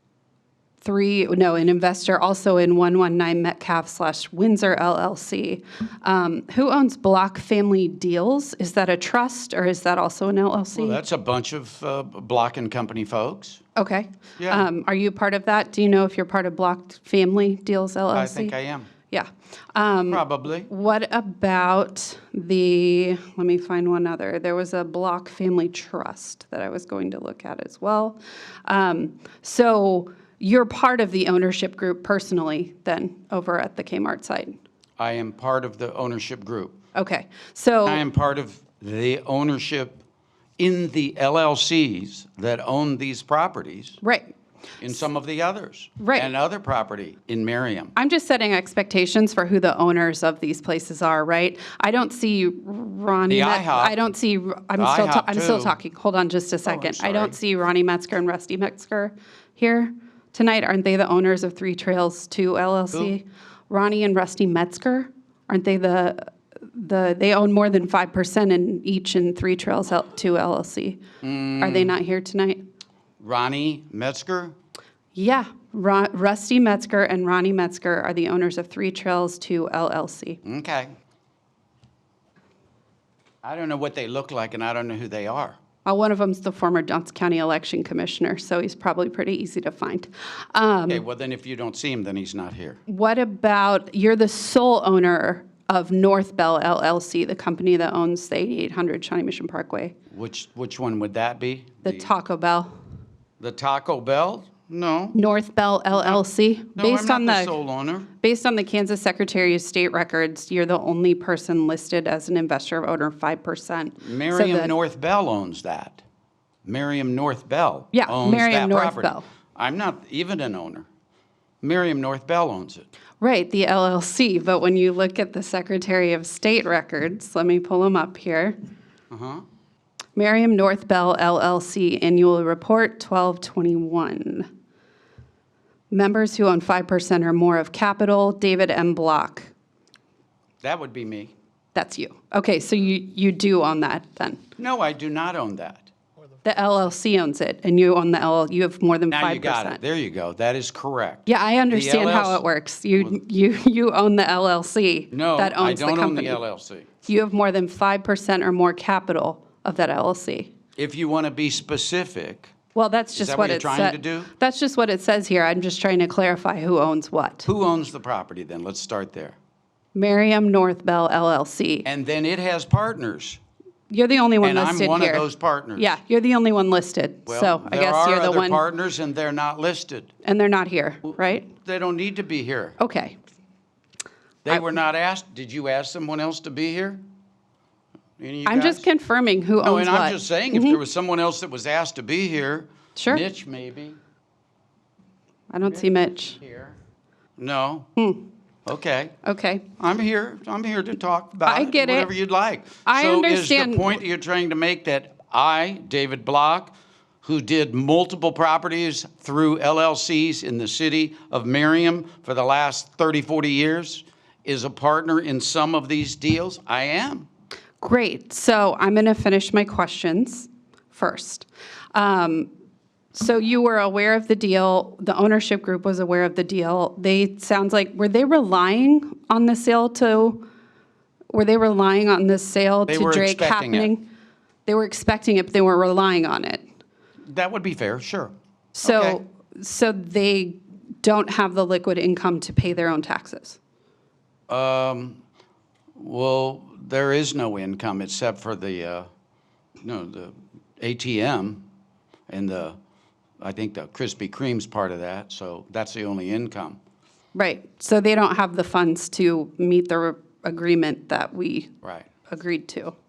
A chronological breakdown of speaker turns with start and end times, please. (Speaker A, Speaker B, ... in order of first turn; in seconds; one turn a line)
Speaker A: 0.8-11.0
Speaker B: 10.7-13.6
Speaker A: 13.8-18.5
Speaker B: 14.4-14.7
Speaker B: 18.1-18.9
Speaker A: 19.1-34.6
Speaker B: 20.1-20.7
Speaker B: 35.0-36.8
Speaker A: 36.9-38.0
Speaker B: 37.9-40.0
Speaker B: 40.6-44.0
Speaker A: 44.0-44.3
Speaker B: 44.8-47.9
Speaker A: 46.0-46.3
Speaker A: 47.9-71.0
Speaker B: 53.3-53.9
Speaker B: 54.8-55.7
Speaker B: 56.6-57.4
Speaker B: 71.2-72.0
Speaker A: 71.6-72.6
Speaker B: 73.2-74.5
Speaker A: 75.1-80.4
Speaker B: 80.4-80.9
Speaker B: 83.4-85.6
Speaker A: 85.8-91.0
Speaker B: 90.9-92.8
Speaker A: 92.9-99.9
Speaker B: 100.1-102.1
Speaker A: 101.8-102.7
Speaker B: 103.4-105.2
Speaker A: 105.1-107.5
Speaker B: 106.8-108.1
Speaker A: 108.2-114.7
Speaker B: 114.0-116.0
Speaker B: 116.6-120.8
Speaker A: 117.9-119.2
Speaker B: 121.6-122.9
Speaker A: 123.2-128.6
Speaker B: 129.1-129.4
Speaker A: 130.2-134.5
Speaker A: 135.9-139.5
Speaker B: 140.6-141.3
Speaker A: 141.7-144.4
Speaker B: 144.6-145.9
Speaker A: 146.4-149.8
Speaker B: 149.1-152.4
Speaker A: 151.2-156.4
Speaker B: 155.1-156.9
Speaker A: 157.0-160.5
Speaker B: 160.8-162.5
Speaker A: 162.7-167.5
Speaker B: 163.1-164.3
Speaker B: 167.4-169.3
Speaker A: 169.9-171.8
Speaker B: 171.8-173.4
Speaker A: 173.9-178.6
Speaker B: 174.4-176.0
Speaker B: 177.2-180.1
Speaker A: 180.2-181.5
Speaker B: 181.1-182.8
Speaker A: 182.8-183.2
Speaker B: 184.4-187.0
Speaker B: 188.2-188.9
Speaker A: 188.4-190.8
Speaker B: 189.6-194.0
Speaker A: 192.9-193.2
Speaker A: 195.5-196.4
Speaker B: 195.7-196.8
Speaker B: 197.4-197.9
Speaker A: 197.9-198.2
Speaker B: 198.7-199.1
Speaker A: 199.2-199.6
Speaker B: 199.8-217.3
Speaker A: 201.4-202.1
Speaker A: 202.8-203.9
Speaker A: 217.8-222.5
Speaker A: 223.1-230.4
Speaker A: 231.3-234.0
Speaker B: 232.9-233.9
Speaker A: 234.7-236.6
Speaker B: 237.3-238.3
Speaker A: 238.7-243.6
Speaker B: 238.8-239.2
Speaker B: 244.5-245.2
Speaker B: 245.9-249.1
Speaker B: 249.8-251.6
Speaker B: 252.3-252.8
Speaker B: 253.4-256.8
Speaker A: 257.3-261.7
Speaker B: 261.8-262.1
Speaker A: 262.3-262.9